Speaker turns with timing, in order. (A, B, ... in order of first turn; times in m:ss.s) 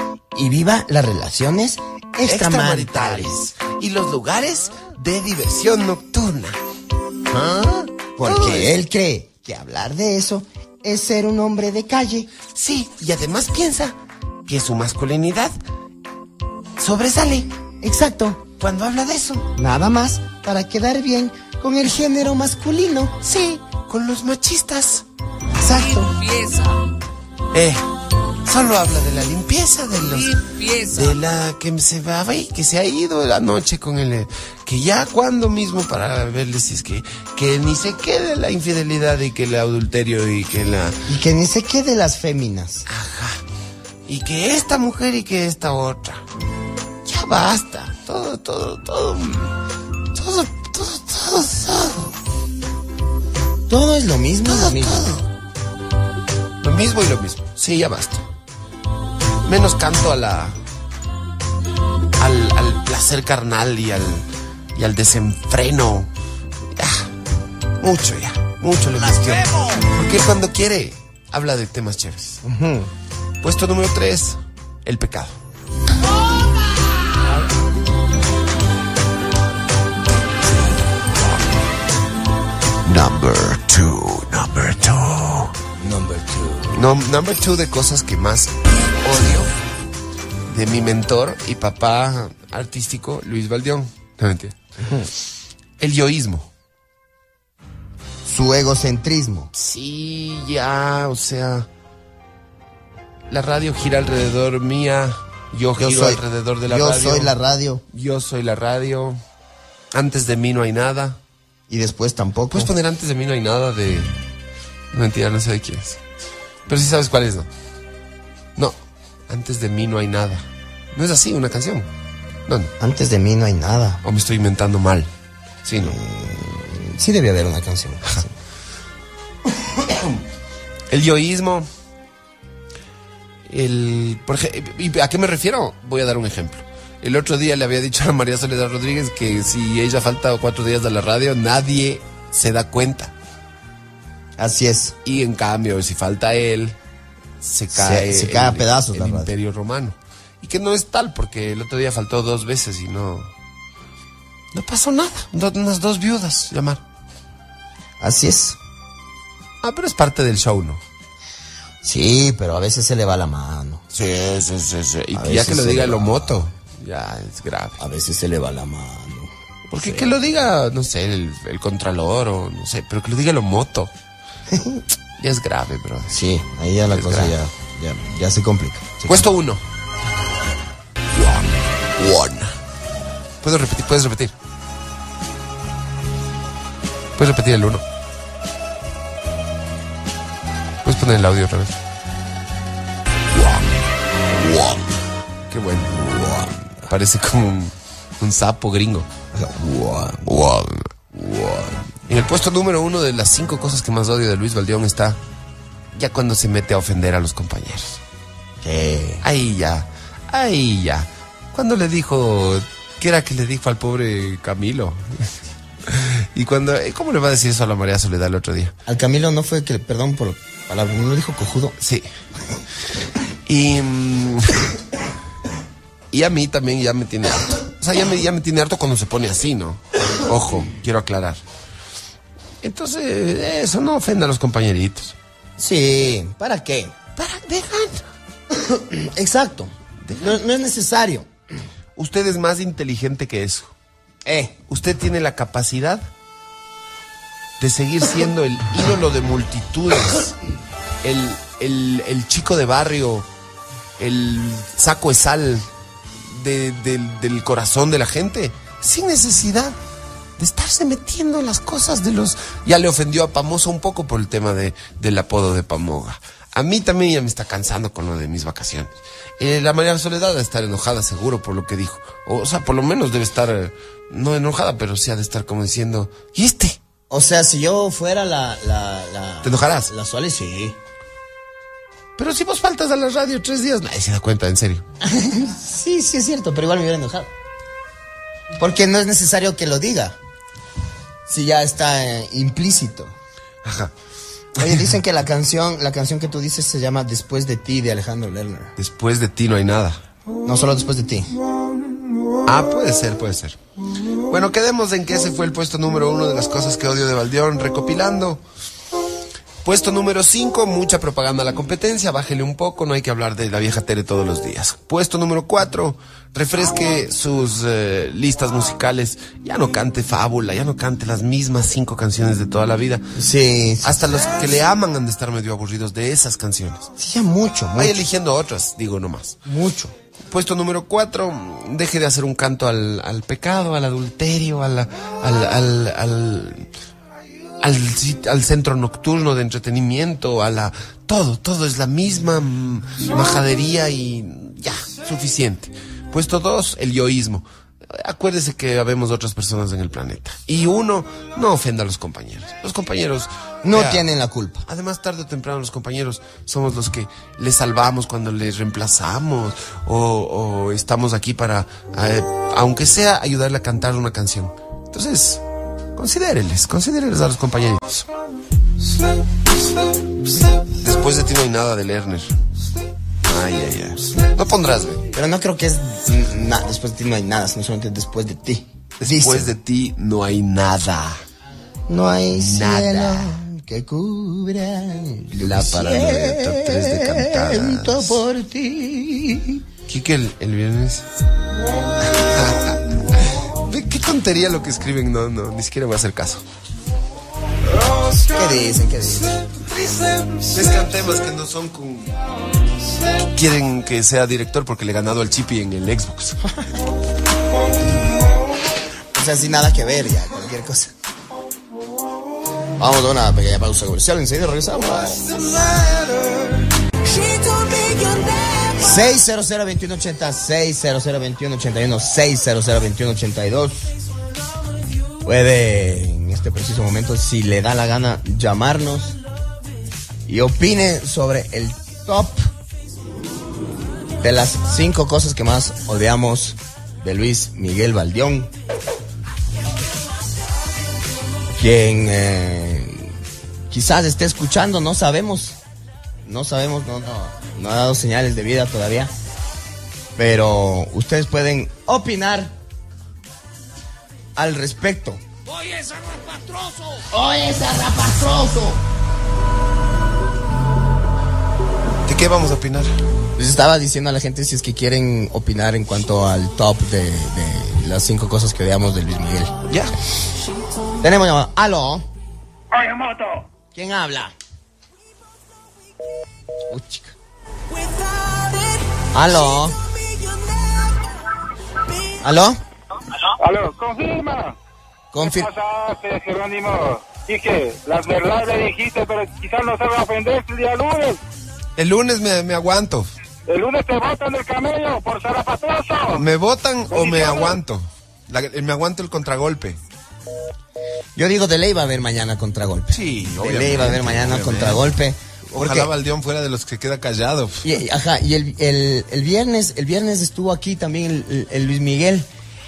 0:00.3-0:03.3 A
0:02.2-0:06.6 B
0:07.3-0:12.3 A
0:08.2-0:08.7 B
0:12.5-0:15.6 B
0:16.8-0:17.5 B
0:17.8-0:18.4 A
0:18.6-0:19.5 B
0:19.6-0:23.2 A
0:23.2-0:25.1 B
0:25.6-0:26.1 A
0:26.0-0:26.8 B
0:27.5-0:27.9 B
0:28.4-0:41.0 B
0:41.1-0:42.9 A
0:42.9-0:43.4 B
0:44.1-0:46.2 B
0:47.0-0:49.6 B
0:50.1-0:52.2 B
0:53.7-0:55.1 A
0:54.4-0:55.3 B
0:56.6-0:58.3 B
0:59.4-1:00.6 B
1:02.2-1:06.1 B
1:06.7-1:07.1 B
1:07.8-1:12.4 B
1:12.4-1:12.9 A
1:13.4-1:15.4 B
1:22.8-1:25.6 B
1:25.8-1:26.8 A
1:26.7-1:29.5 B
1:30.5-1:34.6 B
1:34.8-1:35.1 A
1:35.8-1:36.5 B
1:38.3-1:39.5 A
1:39.5-1:41.7 B
1:43.3-1:47.3 B
1:45.8-1:47.8 A
1:47.9-1:49.2 B
1:49.9-1:51.2 B
1:51.7-1:52.7 A
1:52.5-1:54.1 B
1:54.9-1:56.0 B
1:56.7-1:57.5 B
1:59.3-2:01.9 B
2:02.5-2:02.7 B
2:02.8-2:04.0 A
2:04.0-2:05.1 B
2:05.6-2:06.0 B
2:05.8-2:08.3 A
2:10.9-2:11.7 B
2:13.5-2:23.1 B
2:24.4-2:25.0 A
2:25.0-2:26.8 B
2:27.4-2:33.3 B
2:27.7-2:29.3 A
2:34.5-2:36.8 B
2:38.0-2:38.6 A
2:39.6-2:40.8 B
2:41.8-2:43.8 A
2:43.9-2:47.8 B
2:45.1-2:46.4 A
2:47.8-2:50.1 A
2:49.7-2:53.9 B
2:54.5-2:54.8 A
2:55.2-2:56.2 B
2:56.1-2:59.2 A
2:56.9-2:57.4 B
2:59.0-2:59.7 B
3:01.1-3:02.6 B
3:03.4-3:04.4 B
3:07.2-3:07.8 B
3:10.8-3:11.8 B
3:13.3-3:15.0 B
3:15.5-3:16.3 B
3:16.0-3:16.9 A
3:16.9-3:19.1 B
3:19.3-3:20.3 A
3:20.2-3:21.2 B
3:21.2-3:21.8 A
3:22.0-3:25.2 B
3:25.9-3:28.0 B
3:28.6-3:29.2 A
3:29.2-3:38.8 B
3:38.9-3:41.8 A
3:41.8-3:42.1 B
3:43.4-3:44.7 B
3:46.1-3:51.4 B
3:52.6-3:55.2 B
3:55.6-3:56.9 A
3:57.2-3:58.1 B
3:58.6-4:01.3 A
4:00.0-4:00.4 B
4:02.0-4:03.7 B
4:04.3-4:04.6 A
4:04.7-4:06.1 B
4:07.6-4:10.4 B
4:11.0-4:13.3 B
4:14.0-4:15.7 B
4:16.2-4:19.8 B
4:20.4-4:36.8 B
4:37.1-4:40.8 A
4:39.4-4:39.9 B
4:42.2-4:44.8 B
4:45.0-4:47.3 A
4:48.6-4:50.2 A
4:51.3-4:53.2 A
4:53.6-4:53.9 B
4:54.6-4:58.7 A
4:58.8-5:00.0 B
5:00.4-5:01.3 A
5:02.4-5:03.6 B
5:04.3-5:08.4 B
5:09.6-5:23.0 B
5:23.2-5:24.2 A
5:23.8-5:26.9 B
5:27.0-5:28.0 A
5:27.8-5:29.4 B
5:29.5-5:29.9 A
5:30.3-5:36.7 B
5:37.6-5:54.1 B
5:53.6-5:54.6 A
5:54.7-6:05.4 B
6:06.0-6:08.1 B
6:10.7-6:12.4 B
6:13.2-6:15.1 B
6:15.1-6:19.5 A
6:19.0-6:21.2 B
6:21.9-6:29.6 A
6:22.3-6:23.4 B
6:25.3-6:28.2 B
6:29.9-6:31.1 B
6:32.0-6:36.4 B
6:38.1-6:39.4 A
6:39.4-6:42.2 B
6:43.2-6:46.4 B
6:49.1-6:50.9 A
6:52.8-6:55.2 A
6:54.9-6:56.4 B
6:58.8-7:03.9 A
7:05.2-7:09.2 A
7:10.3-7:12.4 A
7:14.2-7:18.5 A
7:21.6-7:23.1 A
7:23.7-7:25.6 A
7:26.3-7:29.1 A
7:30.2-7:32.5 A
7:34.4-7:35.2 A
7:37.1-7:38.8 A
7:42.1-7:42.9 B
7:43.4-7:49.6 A
7:49.7-7:49.9 B
7:51.0-7:52.1 A
7:53.7-7:54.3 A
7:56.7-7:57.2 A
7:59.1-7:59.8 A
8:02.2-8:02.6 A
8:03.4-8:04.6 C
8:05.1-8:05.5 A
8:05.2-8:11.2 C
8:11.8-8:13.1 B
8:13.5-8:16.2 C
8:16.1-8:19.8 B
8:16.9-8:17.6 C
8:21.2-8:25.9 A
8:22.9-8:24.9 B
8:25.5-8:27.7 B
8:27.6-8:32.3 A